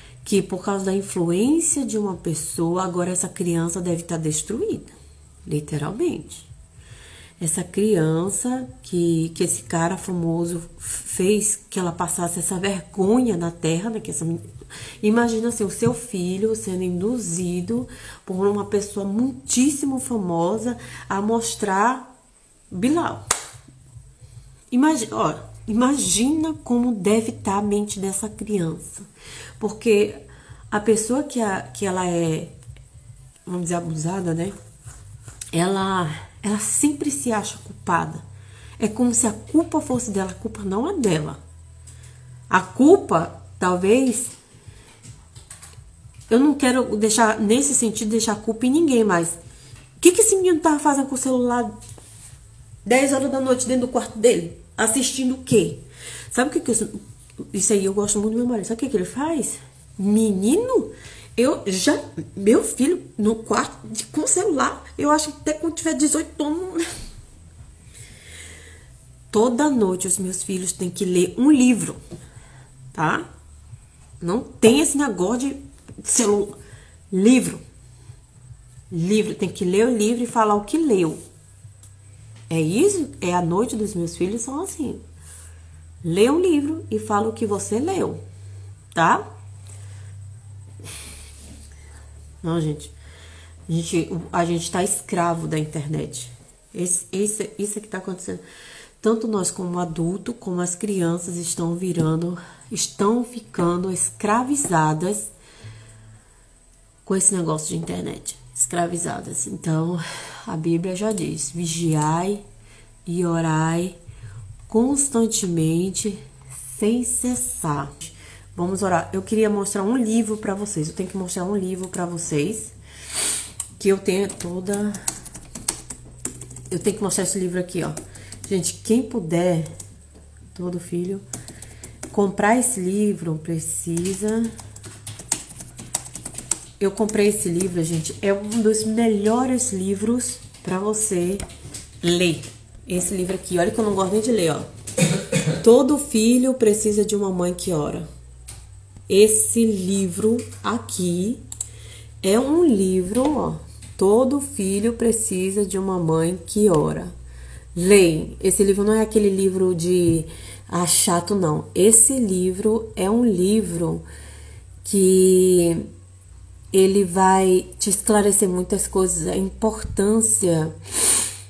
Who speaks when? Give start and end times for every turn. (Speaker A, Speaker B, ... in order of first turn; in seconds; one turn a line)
Speaker A: 0.2-4.9
Speaker A: 5.5-6.5
Speaker A: 7.4-14.4
Speaker A: 15.0-22.1
Speaker A: 22.7-23.2
Speaker A: 24.7-29.1
Speaker A: 29.6-32.5
Speaker A: 33.5-34.5
Speaker A: 35.5-38.2
Speaker A: 38.8-41.4
Speaker A: 42.5-44.4
Speaker A: 46.3-49.4
Speaker A: 50.0-51.7
Speaker A: 52.9-57.0
Speaker A: 57.5-66.8
Speaker A: 69.3-72.0
Speaker A: 72.9-73.3
Speaker A: 74.2-76.6
Speaker A: 77.1-77.6
Speaker A: 78.9-81.2
Speaker A: 82.5-85.0
Speaker A: 86.0-88.2
Speaker A: 88.9-89.2
Speaker A: 92.4-92.9
Speaker A: 93.7-98.4
Speaker A: 99.0-105.3
Speaker A: 107.0-112.4
Speaker A: 113.1-114.0
Speaker A: 114.7-122.8
Speaker A: 123.8-125.0
Speaker A: 126.7-129.7
Speaker A: 130.5-131.2
Speaker A: 132.1-134.5
Speaker A: 136.8-141.4
Speaker A: 142.0-144.7
Speaker A: 145.6-148.1
Speaker A: 149.1-151.4
Speaker A: 152.2-157.1
Speaker A: 157.8-164.1
Speaker A: 164.8-165.9
Speaker A: 166.7-170.7